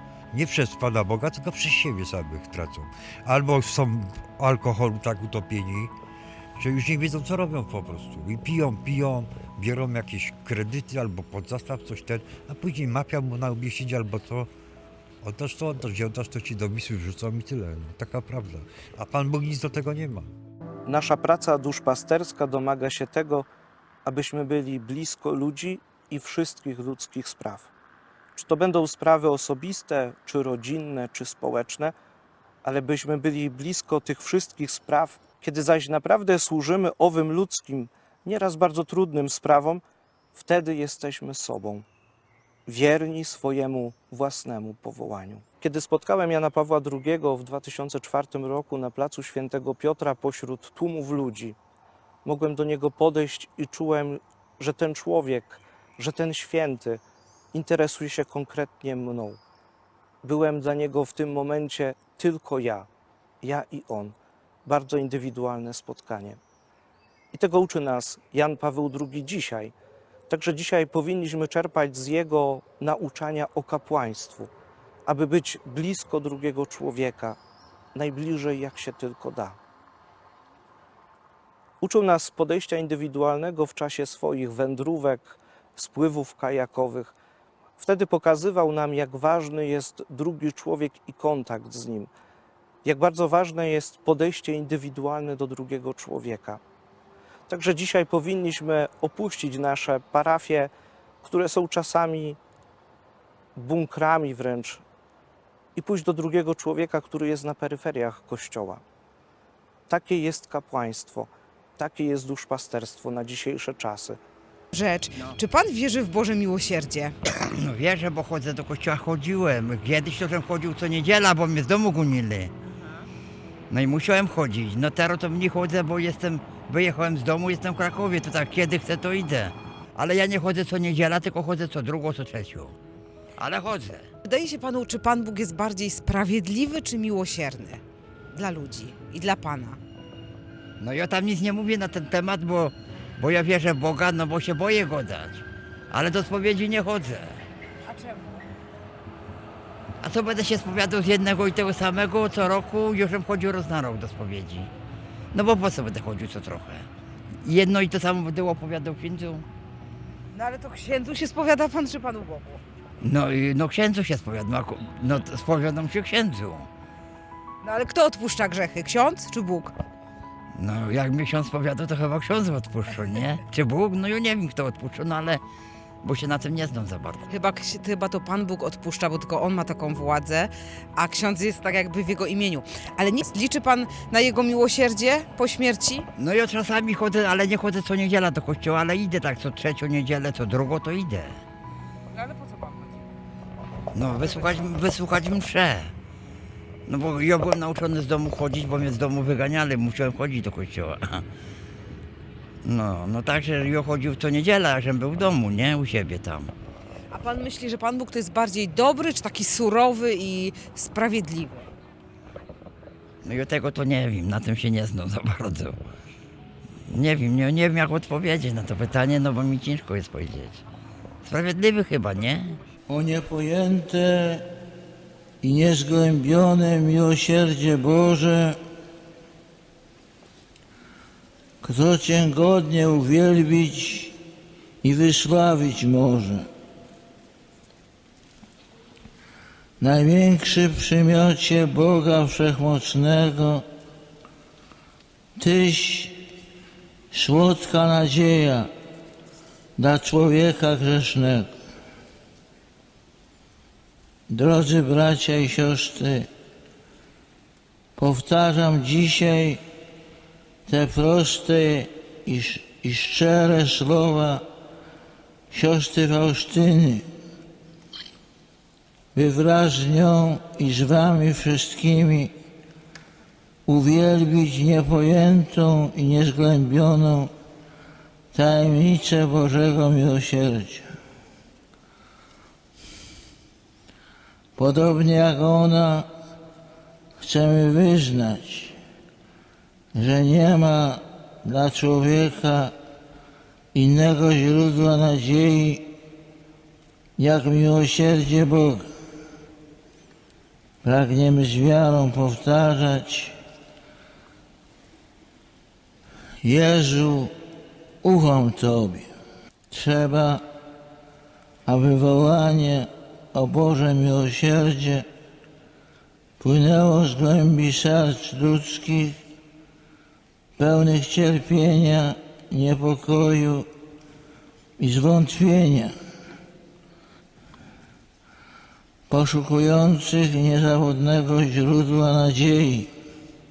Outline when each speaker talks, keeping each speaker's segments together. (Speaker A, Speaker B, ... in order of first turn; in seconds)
Speaker A: 0.3-5.9, 6.6-14.5, 15.2-20.3
Speaker B: 20.9-23.5, 24.0-27.7, 28.3-31.9, 32.6-39.8, 40.3-41.9, 42.7-51.6, 52.2-57.0, 57.5-59.4, 60.2-62.9, 63.4-66.4, 67.3-69.7, 70.3-74.5, 75.0-77.4, 77.9-79.6, 81.8-87.2, 87.8-92.1, 92.8-96.6, 97.5-100.7, 101.2-102.4, 103.5-104.8, 105.8-108.8, 109.9-114.2
Speaker C: 114.7-117.1, 134.2-137.8, 138.3-139.8, 160.3-162.6, 167.6-169.7, 177.3-186.1, 192.1-193.0, 207.1-211.7
Speaker D: 117.4-122.5, 123.7-132.7, 133.4-134.1, 140.8-147.4, 150.0-154.7, 155.3-156.9, 157.4-159.4, 163.0-166.7, 170.5-175.4, 176.0-177.2, 186.2-191.4, 193.9-195.9, 196.8-201.2, 202.6-206.5, 213.2-215.8, 216.9-220.6, 221.2-222.6
Speaker E: 222.9-224.5, 225.4-228.6, 231.6-234.2, 234.8-236.5, 239.8-243.6, 245.4-246.2, 247.1-248.7, 249.8-251.5, 254.3-256.3, 258.0-259.6, 260.7-264.4, 265.5-267.0, 269.1-272.3, 273.6-277.3, 278.3-280.9, 284.6-286.1, 287.2-288.8, 289.9-292.7, 293.7-295.9, 297.2-298.9, 300.8-303.4, 306.4-307.3, 308.0-309.1, 309.7-310.4, 311.6-315.1, 316.4-319.2, 320.6-323.7, 324.8-325.9, 329.1-332.9